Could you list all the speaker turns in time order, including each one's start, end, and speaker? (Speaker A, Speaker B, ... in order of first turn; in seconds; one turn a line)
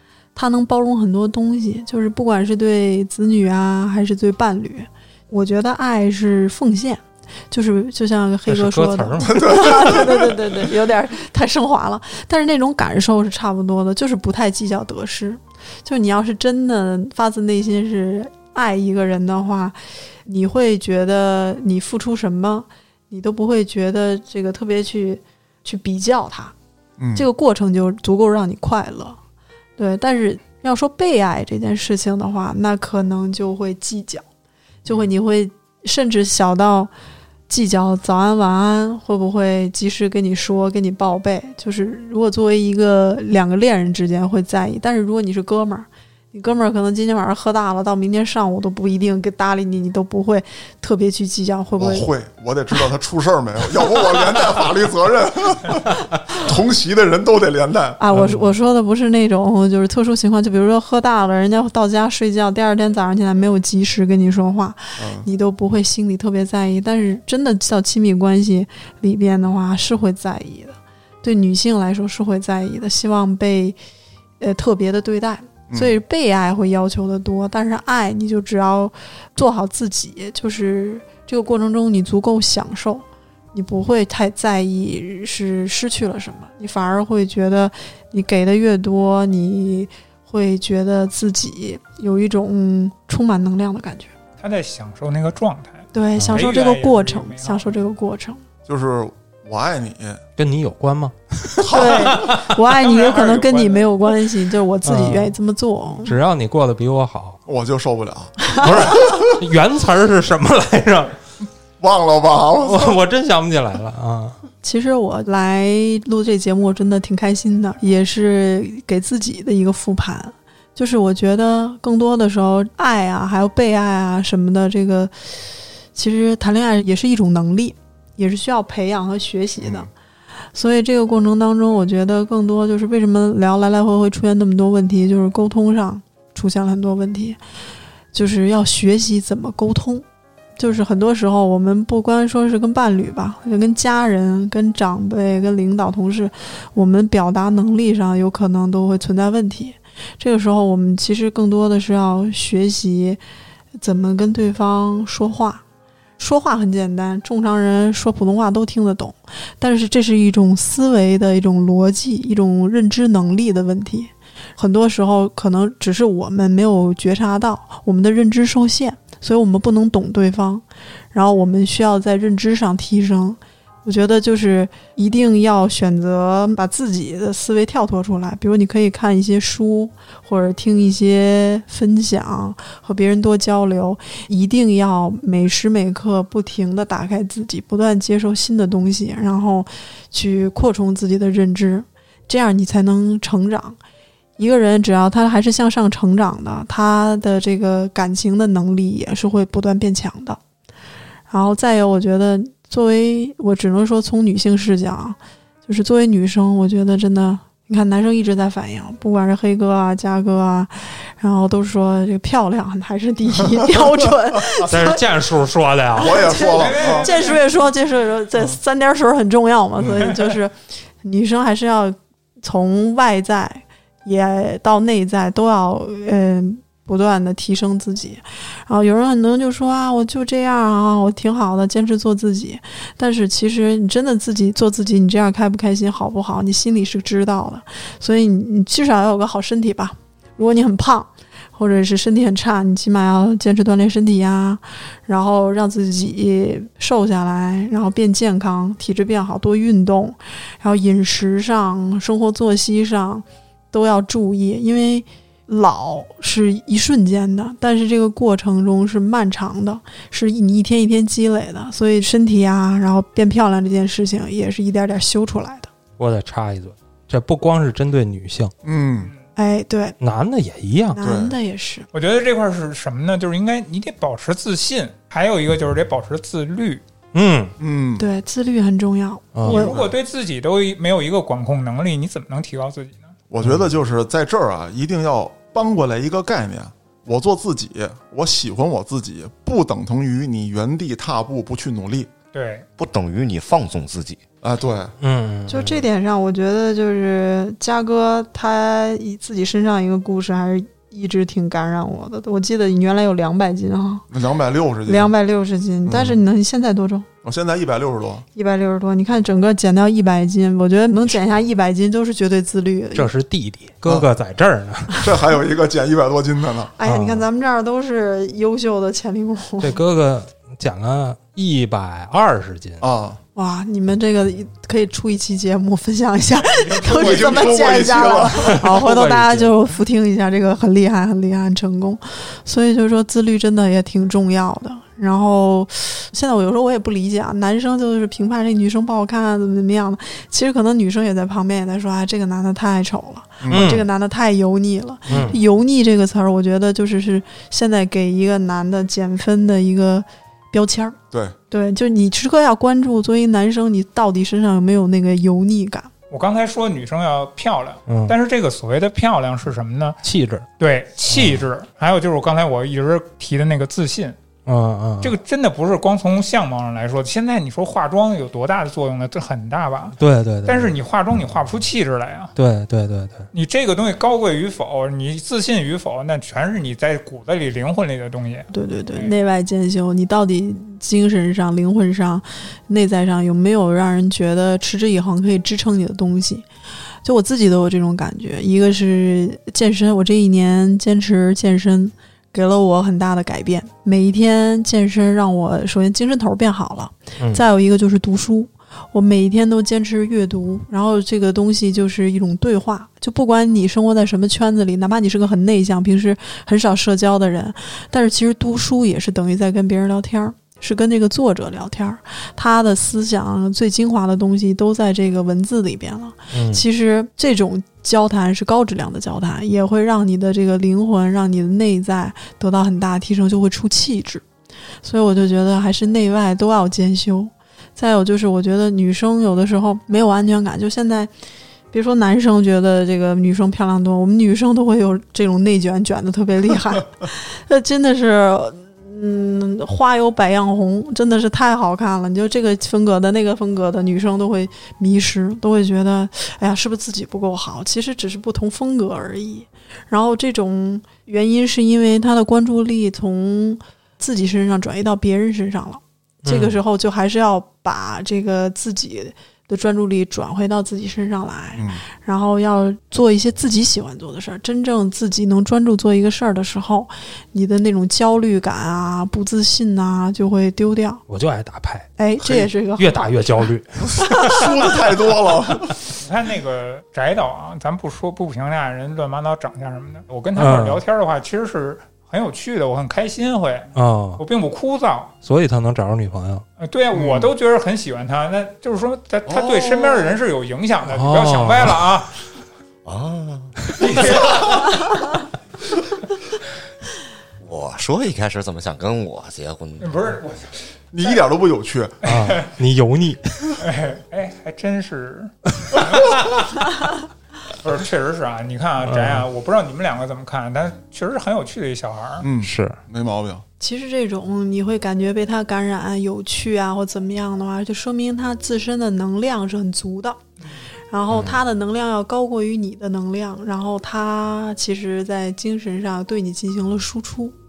Speaker A: 0.3-26.5
Speaker B: 8.5-9.9
Speaker C: 9.2-10.3
Speaker C: 27.0-27.2
Speaker A: 27.1-29.2
Speaker A: 29.8-34.2
Speaker A: 34.8-36.9
Speaker A: 37.5-52.1
Speaker C: 51.8-58.0
Speaker A: 58.0-73.8
Speaker C: 65.0-65.3
Speaker A: 74.4-94.1
Speaker C: 75.7-76.0
Speaker D: 94.4-97.7
Speaker A: 95.9-98.4
Speaker B: 96.2-96.5
Speaker C: 98.7-100.2
Speaker B: 100.4-102.6
Speaker C: 101.6-102.3
Speaker A: 101.7-106.2
Speaker D: 102.7-104.1
Speaker B: 104.8-105.3
Speaker B: 106.0-107.4
Speaker C: 107.5-109.3
Speaker B: 108.6-111.2
Speaker C: 111.8-113.0
Speaker B: 112.6-114.4
Speaker A: 114.6-125.3
Speaker A: 125.9-129.9
Speaker C: 129.6-129.9
Speaker A: 130.5-137.4
Speaker A: 138.1-140.0
Speaker A: 140.6-153.2
Speaker A: 153.8-155.6
Speaker A: 156.2-193.8
Speaker A: 194.4-200.4
Speaker A: 201.3-215.0
Speaker B: 214.6-216.2
Speaker C: 215.9-217.1
Speaker A: 215.9-265.7
Speaker D: 216.4-217.5
Speaker B: 266.0-268.5
Speaker C: 268.6-269.1
Speaker A: 269.4-270.0
Speaker B: 270.0-271.0
Speaker A: 270.9-271.9
Speaker C: 271.0-271.3
Speaker D: 271.9-276.8
Speaker B: 277.1-277.5
Speaker C: 277.6-278.1
Speaker A: 278.0-279.4
Speaker B: 279.3-279.7
Speaker C: 279.4-279.9
Speaker D: 279.4-283.1
Speaker C: 283.3-292.1
Speaker D: 292.3-292.6
Speaker E: 292.8-294.2
Speaker C: 294.4-294.9
Speaker B: 295.0-295.8
Speaker A: 295.5-304.1
Speaker C: 304.1-305.1
Speaker A: 304.9-307.1
Speaker C: 305.8-306.2
Speaker C: 307.2-308.2
Speaker A: 308.3-313.1
Speaker B: 312.9-315.1
Speaker C: 315.0-316.7
Speaker A: 316.8-319.8
Speaker B: 316.8-317.2
Speaker B: 319.6-322.8
Speaker C: 322.8-323.2
Speaker A: 323.4-351.0
Speaker D: 326.4-328.1
Speaker C: 326.8-329.2
Speaker B: 328.5-329.5
Speaker C: 343.4-343.8
Speaker B: 343.5-343.9
Speaker B: 345.1-345.4
Speaker A: 351.5-355.9
Speaker D: 356.1-360.0
Speaker B: 357.9-358.1
Speaker B: 360.0-360.4
Speaker D: 360.6-364.2
Speaker B: 361.1-361.4
Speaker B: 364.4-365.1
Speaker D: 365.0-372.3
Speaker B: 370.0-370.7
Speaker B: 372.4-373.3
Speaker D: 373.3-379.1
Speaker A: 378.5-386.4
Speaker A: 387.0-424.2
Speaker B: 397.2-397.4
Speaker B: 416.3-416.6
Speaker A: 424.8-431.1
Speaker A: 431.7-471.0
Speaker B: 456.2-456.6
Speaker C: 461.5-461.8
Speaker B: 471.1-471.9
Speaker A: 472.0-473.5
Speaker B: 472.8-474.8
Speaker C: 473.9-475.8
Speaker D: 476.0-485.1
Speaker B: 480.4-480.8
Speaker B: 483.7-484.2
Speaker B: 485.2-486.4
Speaker D: 486.6-492.2
Speaker C: 486.9-487.3
Speaker C: 489.3-490.0
Speaker B: 490.9-491.8
Speaker E: 492.8-493.6
Speaker D: 493.8-494.9
Speaker E: 497.4-500.1
Speaker D: 499.8-501.1
Speaker C: 500.9-502.0
Speaker B: 502.0-503.6
Speaker D: 502.0-502.5
Speaker D: 503.6-506.6
Speaker B: 505.7-506.4
Speaker D: 507.5-512.3
Speaker B: 508.8-509.2
Speaker C: 512.2-513.4
Speaker B: 512.4-512.8
Speaker A: 513.6-520.2
Speaker A: 520.9-527.3